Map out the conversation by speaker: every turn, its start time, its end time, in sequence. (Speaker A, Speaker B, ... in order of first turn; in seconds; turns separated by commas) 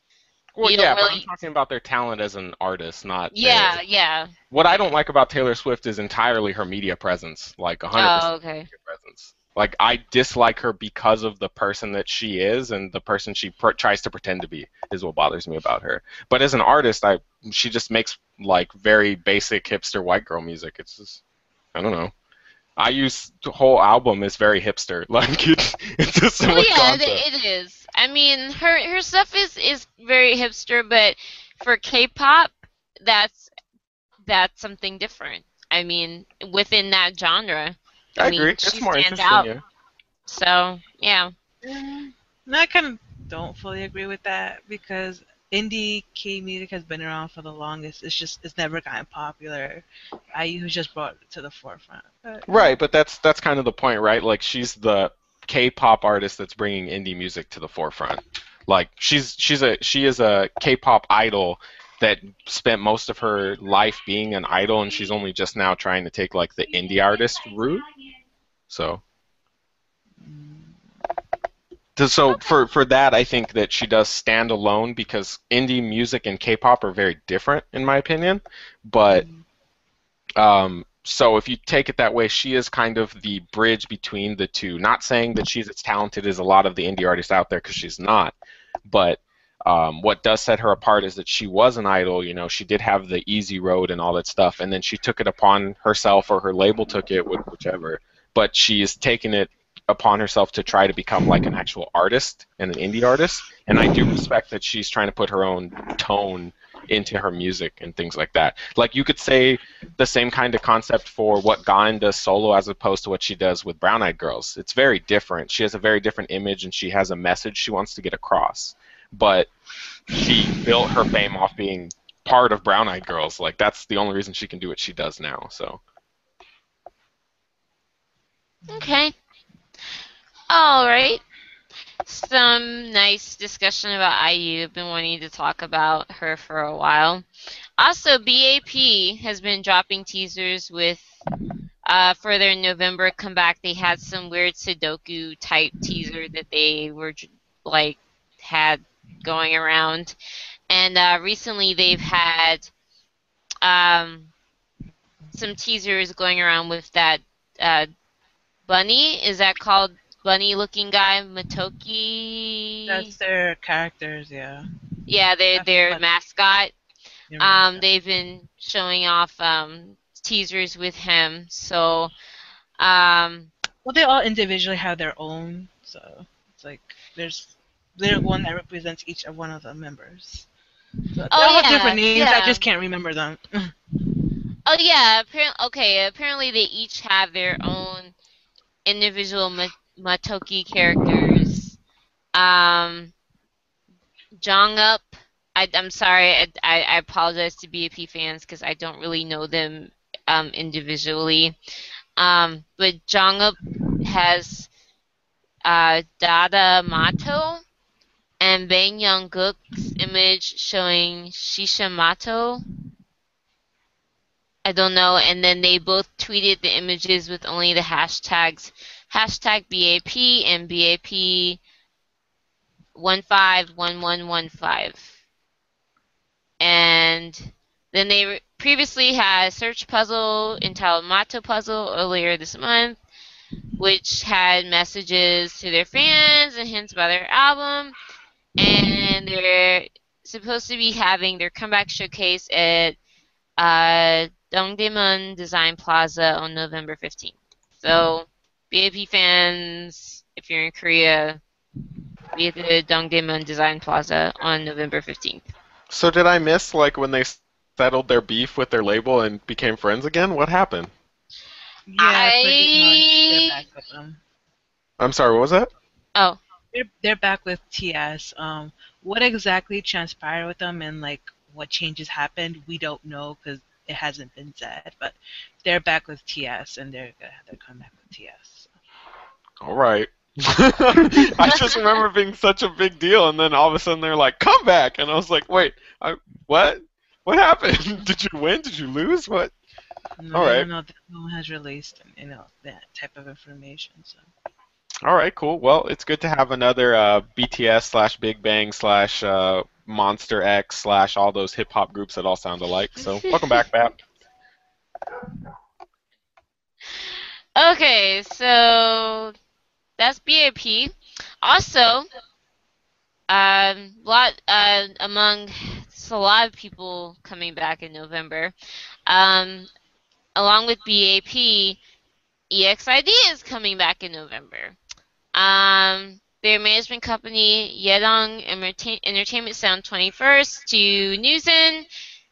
Speaker A: 0.5-3.8, Speaker B: 0.6-1.3, Speaker B: 3.3-4.3, Speaker A: 4.5-21.2, Speaker B: 8.0-8.7, Speaker A: 21.7-22.1, Speaker A: 22.8-27.2, Speaker B: 26.4-33.5, Speaker B: 34.2-39.5, Speaker A: 38.2-39.6, Speaker B: 40.3-41.3, Speaker C: 41.6-52.7, Speaker A: 52.5-67.8, Speaker A: 68.7-69.0, Speaker C: 70.2-70.8, Speaker A: 72.0-79.2, Speaker C: 79.1-79.4, Speaker A: 80.4-119.5, Speaker A: 120.1-125.8, Speaker C: 128.6-129.0, Speaker B: 128.7-129.1, Speaker B: 130.5-131.2, Speaker B: 132.1-137.2, Speaker B: 137.8-141.1, Speaker B: 141.9-150.1, Speaker B: 150.7-152.7, Speaker B: 153.6-154.3, Speaker B: 155.3-157.9, Speaker B: 158.7-163.1, Speaker C: 162.9-164.7, Speaker B: 165.1-166.7, Speaker C: 165.6-166.0, Speaker C: 167.3-167.8, Speaker B: 167.4-172.1, Speaker B: 172.8-173.5, Speaker C: 173.8-180.5, Speaker C: 181.1-183.7, Speaker B: 181.3-182.6, Speaker B: 184.7-188.1, Speaker B: 188.8-191.8, Speaker B: 192.3-193.1, Speaker B: 194.4-201.5, Speaker B: 202.2-204.7, Speaker B: 205.6-207.6, Speaker B: 208.4-212.6, Speaker B: 214.6-221.6, Speaker B: 222.9-225.1, Speaker B: 226.6-233.0, Speaker B: 233.8-237.9, Speaker B: 238.6-243.0, Speaker B: 243.6-251.4, Speaker B: 252.3-255.4, Speaker A: 255.9-260.9, Speaker C: 261.9-264.2, Speaker B: 262.0-263.5, Speaker A: 265.0-265.7, Speaker C: 266.7-278.7, Speaker A: 279.6-289.5, Speaker C: 290.2-294.3, Speaker A: 290.3-290.7, Speaker A: 295.0-304.0, Speaker B: 303.0-303.6, Speaker B: 307.6-309.3, Speaker B: 310.0-312.1, Speaker B: 313.3-318.5, Speaker B: 319.1-319.7, Speaker B: 320.4-321.8, Speaker B: 322.5-324.8, Speaker B: 325.3-331.9